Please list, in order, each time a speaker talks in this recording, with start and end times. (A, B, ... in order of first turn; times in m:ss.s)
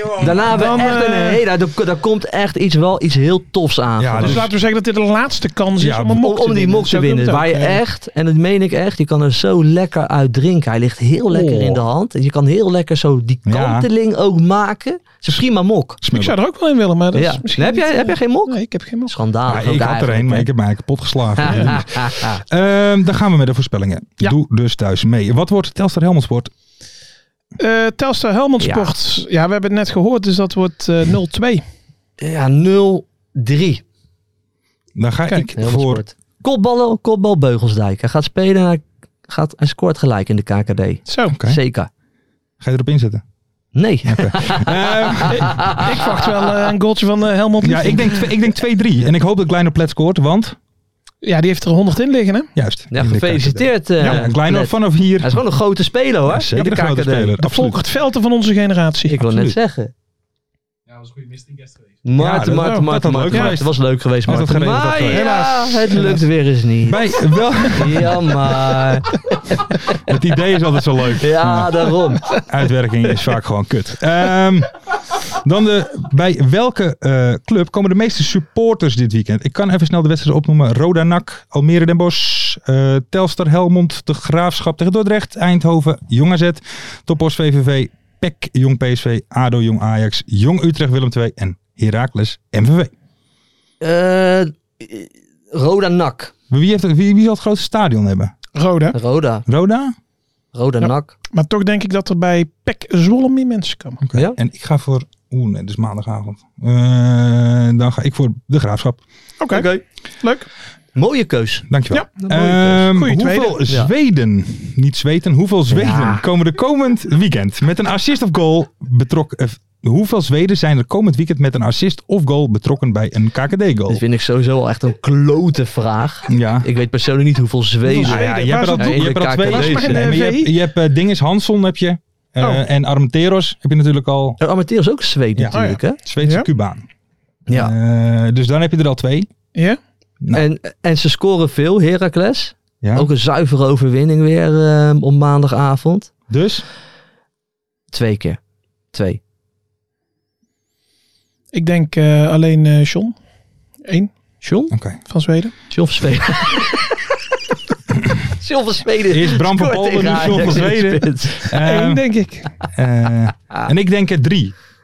0:00.2-0:04.4 A
0:00.2-0:00.5 B
0:00.3-0:01.4 C
0:04.0-0:04.5 B
0:04.2-0:07.8 C
0:05.8-0:06.3 B
0:06.2-0:16.0 A
0:11.3-0:11.8 B
0:13.4-0:13.9 B
0:16.0-0:16.4 B
0:16.1-0:19.2 C
0:17.1-0:18.6 A
0:19.1-0:20.5 A
0:19.5-0:26.5 B
0:21.4-0:22.4 A
0:27.6-0:31.6 C
0:28.6-0:29.0 A
0:32.2-0:33.8 A
0:35.0-0:36.0 B
0:35.6-0:41.9 A
0:41.1-0:41.4 C
0:42.6-0:43.2 B
0:43.7-0:45.9 A
0:44.0-0:45.7 B
0:45.3-0:48.3 C
0:47.6-0:50.6 B
0:51.2-0:52.5 C
0:52.5-0:55.4 B
0:52.9-0:57.3 A
0:56.3-0:57.8 B
0:57.4-0:59.2 C
0:59.1-0:59.9 A
0:59.2-0:59.6 B
1:02.0-1:07.1 A
1:02.2-1:05.3 B
1:02.6-1:03.6 C
1:05.1-1:06.2 C
1:06.8-1:08.4 B
1:07.7-1:10.1 A
1:10.0-1:14.7 B
1:11.2-1:12.3 A
1:15.3-1:32.9 B
1:33.8-1:36.3 A
1:36.5-1:38.3 B
1:38.5-1:39.0 C
1:38.9-1:39.4 A
1:39.5-1:39.9 B
1:40.5-1:41.1 A
1:40.8-1:44.0 C
1:44.0-1:49.0 B
1:49.4-1:49.7 C
1:49.5-1:49.8 A
1:50.2-1:50.5 C
1:50.9-1:51.6 A
1:51.7-2:04.0 B
1:51.9-1:53.6 C
1:52.2-1:52.9 A
1:55.7-1:56.2 A
2:03.9-2:10.1 A
2:06.3-2:06.7 B
2:07.8-2:10.5 C
2:08.0-2:14.4 B
2:14.4-2:16.0 A
2:15.4-2:16.8 B
2:15.5-2:16.5 C
2:17.5-2:17.7 A
2:17.5-2:19.3 B
2:20.3-2:26.1 A
2:22.8-2:23.1 B
2:26.3-2:26.6 B
2:27.9-2:28.4 A
2:28.9-2:29.2 A
2:31.5-2:33.1 C
2:33.9-2:34.1 C
2:34.4-2:34.7 A
2:34.7-2:35.0 B
2:35.1-2:35.5 C
2:35.7-2:36.9 A
2:38.4-2:41.5 A
2:39.1-2:42.0 B
2:41.5-2:42.5 C
2:42.7-2:44.5 B